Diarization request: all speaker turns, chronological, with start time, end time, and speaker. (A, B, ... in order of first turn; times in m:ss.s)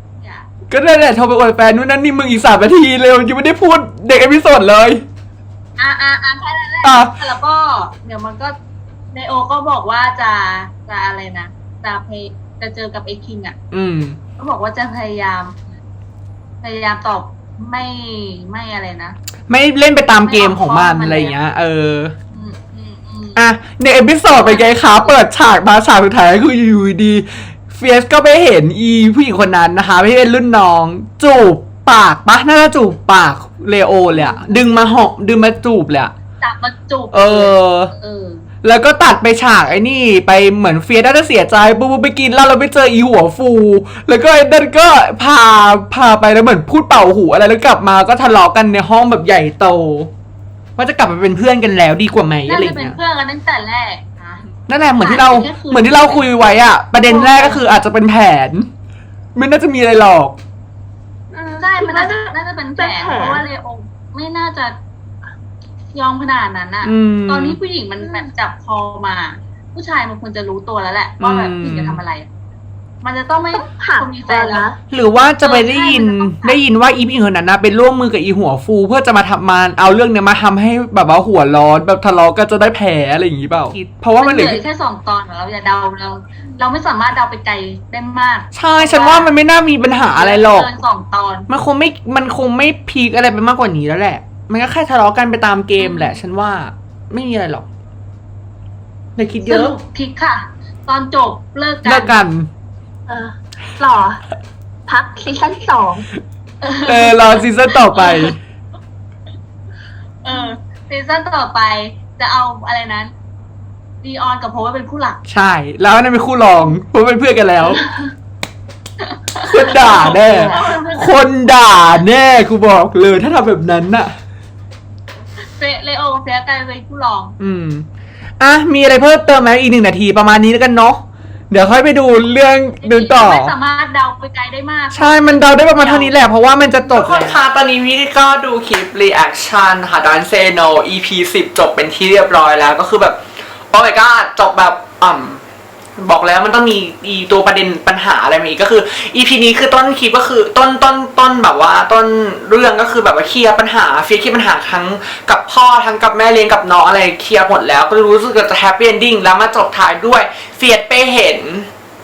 0:00.2-0:00.5 A
0:00.7-0:05.0 B
0:05.8-0:08.5 A
0:06.8-0:07.1 B
0:09.1-0:13.6 A
0:13.7-0:14.2 B
0:14.4-0:15.6 A
0:16.6-0:19.2 A
0:19.5-0:22.1 B
0:20.2-0:21.4 A
0:22.3-0:23.4 A
0:23.4-0:36.1 B
0:24.3-0:25.2 A
0:34.1-0:34.6 A
0:36.4-0:38.5 A
0:37.1-0:37.9 B
0:38.6-0:50.1 B
0:50.8-0:53.0 B
0:52.4-0:54.4 A
0:54.7-0:58.7 B
0:55.0-0:56.2 A
0:57.1-0:57.6 A
0:59.3-1:00.4 B
1:01.3-1:03.4 C
1:01.6-1:04.8 A
1:05.9-1:12.3 A
1:06.8-1:07.6 B
1:08.0-1:08.3 C
1:11.2-1:12.0 B
1:13.0-1:14.7 A
1:13.5-1:14.8 C
1:14.9-1:24.6 B
1:15.4-1:16.6 A
1:24.2-1:29.3 A
1:28.5-1:30.7 B
1:30.0-1:31.5 A
1:31.5-1:37.6 B
1:35.8-1:36.2 A
1:39.2-1:39.7 B
1:39.4-1:42.2 A
1:41.8-1:42.5 B
1:43.1-1:44.2 C
1:44.9-1:46.1 C
1:46.6-1:47.4 A
1:46.8-1:48.4 B
1:47.9-1:48.3 A
1:50.2-1:53.1 A
1:54.0-1:55.2 A
1:55.3-1:57.8 B
1:59.0-2:01.2 A
1:59.4-2:04.1 B
1:59.7-2:00.8 C
2:05.6-2:07.3 A
2:07.4-2:07.8 B
2:08.4-2:13.5 B
2:12.8-2:16.1 A
2:14.9-2:23.2 B
2:16.8-2:17.4 A
2:23.7-2:25.4 B
2:26.0-2:41.7 B